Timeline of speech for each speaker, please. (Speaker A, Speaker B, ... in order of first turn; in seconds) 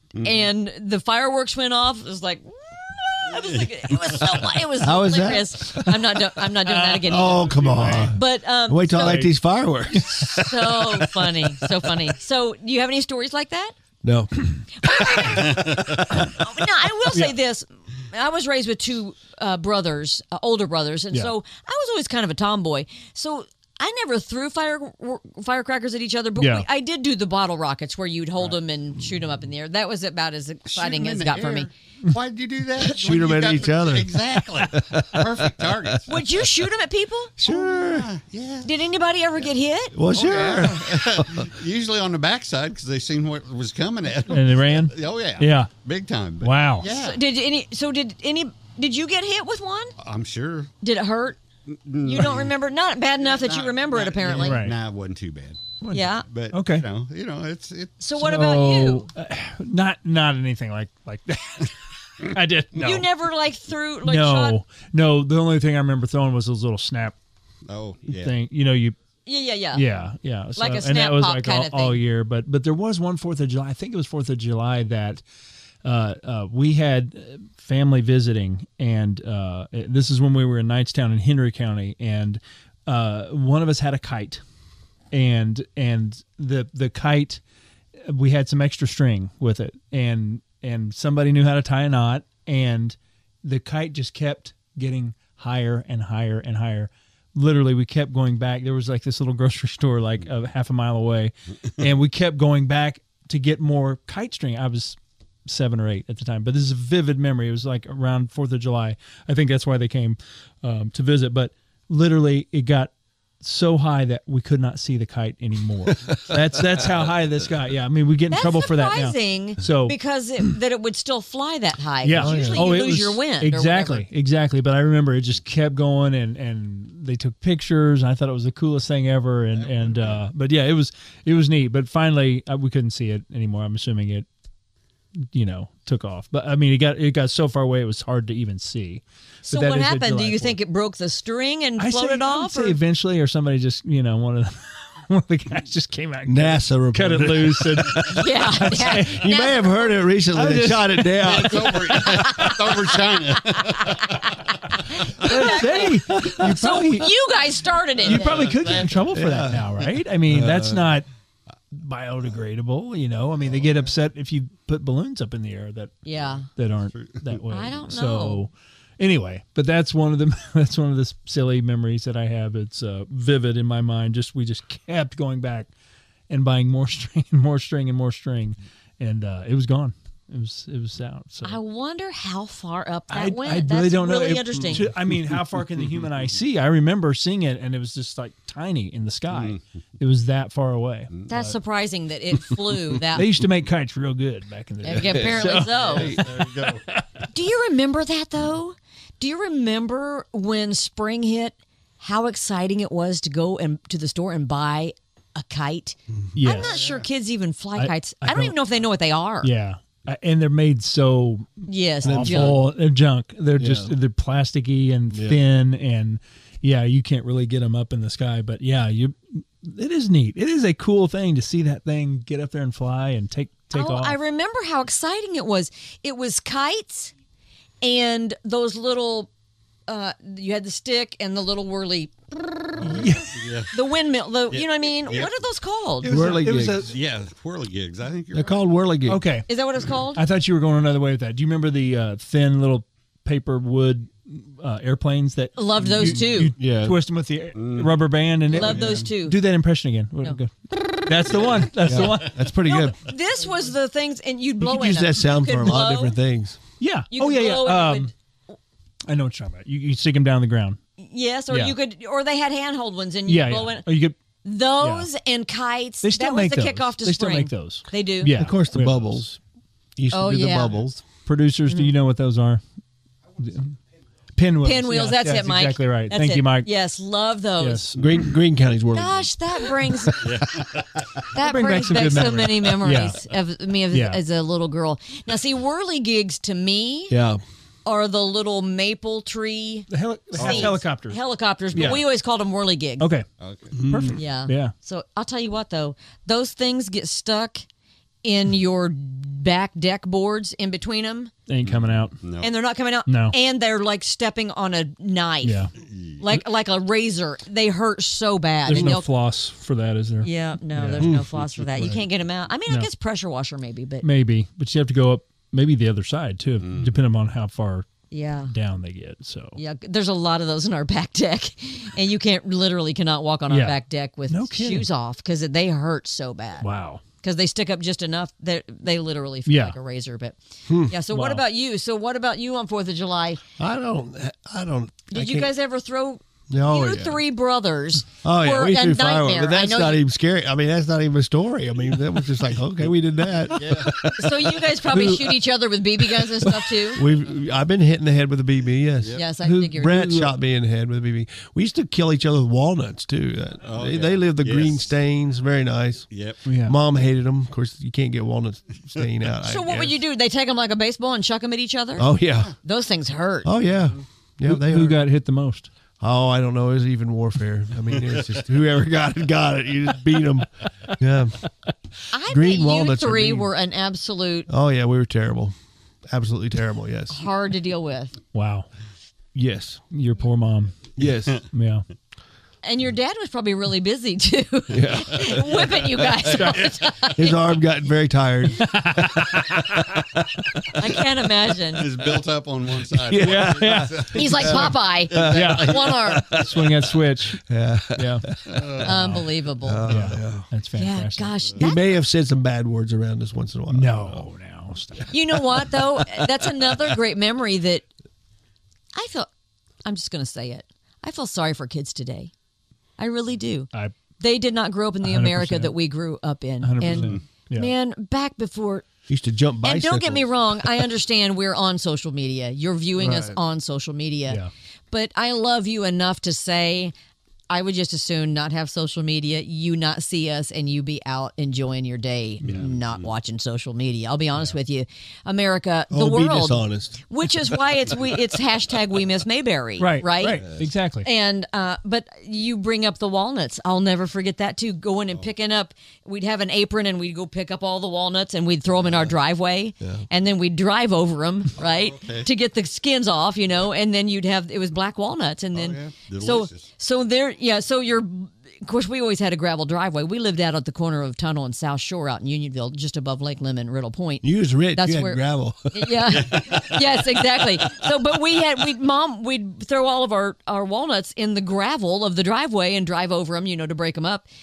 Speaker A: 0.2-9.2, 10.0-13.8, 14.8-31.7, 36.1-37.3, 38.6-39.9, 46.9-49.9, 50.8-51.4, 52.0-54.6, 55.9-56.2, 58.0-59.1, 62.8-64.6, 69.2-69.8, 70.5-72.0, 118.3-124.0, 139.4-142.8, 148.1-150.0, 152.0-152.6, 153.5-158.7, 166.1-166.5, 167.5-168.4, 181.4-184.9, 191.3-193.3, 194.8-196.2, 197.3-209.5, 211.7-212.6, 223.7-227.1, 227.8-229.3, 229.9-233.1, 233.7-236.1, 239.5-240.2, 245.6-246.5, 248.5-249.4, 252.6-256.1, 257.1-258.1, 261.0-263.9, 264.4-268.3, 270.1-270.8, 274.6-277.8, 278.9-280.2, 281.3-287.1, 287.8-293.1, 294.1-297.6, 298.2-301.3, 302.4-305.6, 306.2-309.1, 310.2-314.1, 318.1-318.5, 319.6-326.7, 327.2-333.4, 335.1-340.0, 344.2-347.0, 349.1-350.2, 359.4-362.1, 362.6-363.5, 372.1-374.5, 377.1-378.2, 382.6-387.5, 390.7-391.8, 394.1-396.3, 398.8-399.9, 400.7-401.9, 405.1-407.9, 408.9-409.3, 409.8-412.3, 413.0-418.9, 419.6-424.4, 424.9-426.9, 427.5-440.4, 441.0-474.3
Speaker B: 3.3-4.4, 15.3-16.2, 30.7-36.2, 37.4-38.7, 40.1-47.2, 50.0-50.7, 51.7-52.5, 53.2-55.6, 56.3-58.0, 67.6-68.3, 129.6-130.2, 151.2-154.2, 158.1-159.1, 166.9-167.3, 189.3-189.6, 195.1-196.8, 206.5-207.1, 232.8-233.7, 234.5-235.4, 236.8-238.6, 247.5-247.9, 251.3-251.6, 280.2-281.2, 293.4-293.8, 301.6-302.5, 305.8-306.2, 316.6-316.9, 343.5-343.9, 353.6-354.9, 356.1-356.4, 386.4-386.8, 391.8-394.6, 395.2-395.4, 398.5-398.9, 416.9-417.2, 451.6-452.3, 455.5-456.7, 466.1-467.0
Speaker C: 4.8-5.8, 7.0-10.4, 14.0-14.4, 32.8-36.0, 37.4-38.1, 39.9-41.5, 122.1-122.7, 146.2-148.1, 148.9-151.9, 159.1-160.9, 195.0-196.2, 212.0-212.6, 213.6-213.9, 215.1-215.4, 236.1-236.9, 238.3-239.2, 246.6-247.0, 251.8-252.9, 254.6-256.6, 268.3-269.4, 269.9-271.0, 278.0-279.3, 287.1-287.4, 293.7-294.2, 311.0-312.0, 330.7-330.9, 333.6-335.5, 336.5-337.2, 338.2-345.4, 346.0-349.2, 349.7-356.1, 356.6-359.9, 362.0-362.5, 363.4-365.0, 366.0-371.4, 372.3-373.5, 374.5-375.5, 376.1-377.2, 379.3-379.8, 381.0-381.4, 384.7-385.7, 387.2-388.8, 392.9-400.5, 401.6-404.2, 419.1-420.9, 423.0-423.3, 435.9-437.0, 464.2-466.4
Speaker D: 6.9-8.1, 8.9-9.3, 9.9-10.6, 26.4-26.6, 44.3-45.7, 46.4-46.9, 54.4-54.8, 55.8-56.9, 58.1-63.1, 64.0-67.2, 68.1-69.0, 69.7-75.2, 75.8-84.4, 85.1-87.4, 88.0-120.5, 122.0-134.3, 135.3-140.6, 141.8-149.2, 150.3-151.8, 155.2-157.1, 158.0-161.1, 161.7-165.9, 166.5-175.7, 176.3-181.6, 183.1-191.5, 193.1-197.0, 206.3-206.7, 207.8-208.6, 209.4-224.2, 232.8-233.3, 236.0-236.9, 239.1-239.5, 240.1-252.4, 256.8-258.1, 259.1-260.8, 261.5-261.7, 263.3-264.2, 264.8-265.1, 266.0-269.3, 271.2-272.6, 273.4-273.8, 274.4-276.7, 277.6-278.0, 281.4-283.2, 283.9-284.2, 289.9-291.2, 291.7-292.0, 293.0-293.3, 293.8-294.7, 301.5-302.2, 303.1-303.3, 305.4-305.7, 308.6-311.1, 314.0-317.9, 318.5-319.6, 323.5-324.9, 326.6-327.0, 329.5-329.8, 331.1-331.4, 349.4-350.3, 356.4-356.8, 364.4-365.7, 378.3-378.7, 379.9-380.9, 381.5-381.8, 388.6-390.0, 393.1-395.8, 396.3-398.3, 399.9-401.4, 403.7-405.4, 415.0-415.8, 416.6-417.7, 439.8-441.1